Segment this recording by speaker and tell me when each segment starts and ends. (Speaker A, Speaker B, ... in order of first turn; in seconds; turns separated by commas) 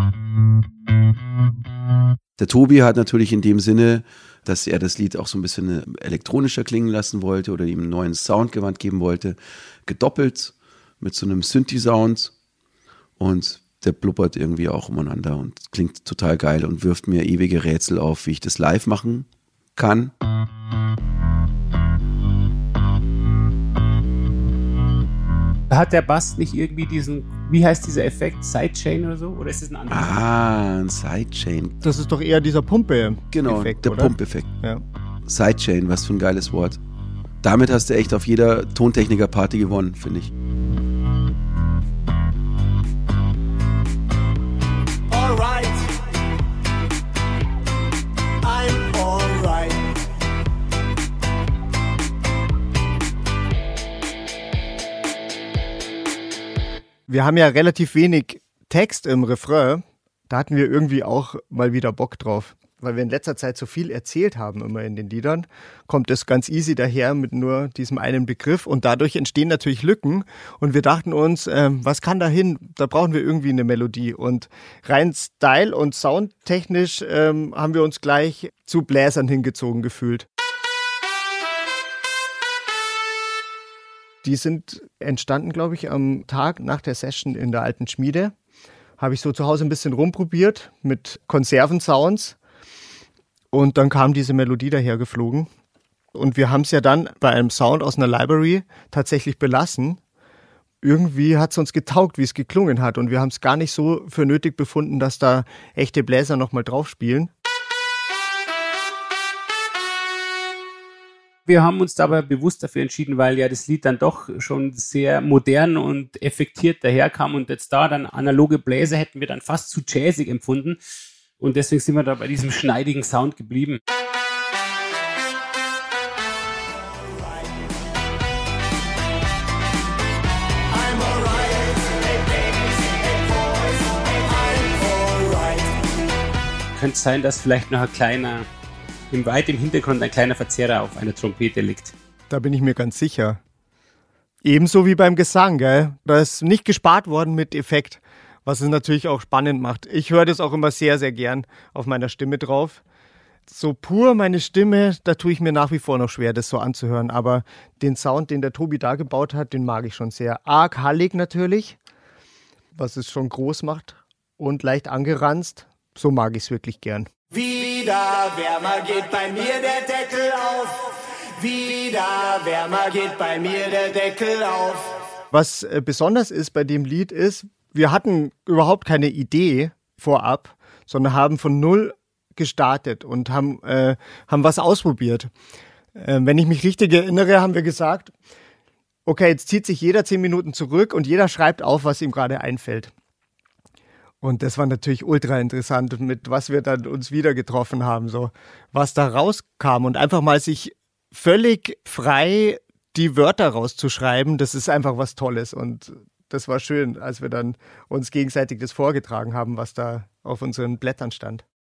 Speaker A: 2.4-12.3, Speaker A: 13.2-20.1, Speaker B: 25.7-30.2, Speaker A: 29.9-31.8, Speaker C: 31.8-34.8, Speaker A: 33.3-34.5, Speaker A: 35.3-36.8, Speaker A: 37.4-40.3, Speaker D: 45.1-46.0, Speaker D: 48.4-49.9, Speaker C: 57.1-80.3, Speaker C: 84.2-88.3, Speaker C: 89.0-92.4, Speaker C: 93.5-95.5, Speaker C: 96.1-100.0, Speaker C: 100.8-107.3, Speaker B: 111.5-120.8, Speaker B: 121.4-123.8, Speaker D: 126.8-127.5, Speaker D: 130.7-135.8, Speaker B: 136.8-138.4, Speaker B: 139.1-141.9, Speaker C: 142.3-143.4, Speaker C: 144.4-152.8, Speaker C: 153.5-161.8, Speaker C: 162.8-167.1, Speaker D: 167.3-174.9, Speaker C: 175.3-185.3, Speaker C: 185.9-188.1, Speaker C: 189.1-192.9, Speaker C: 194.2-211.4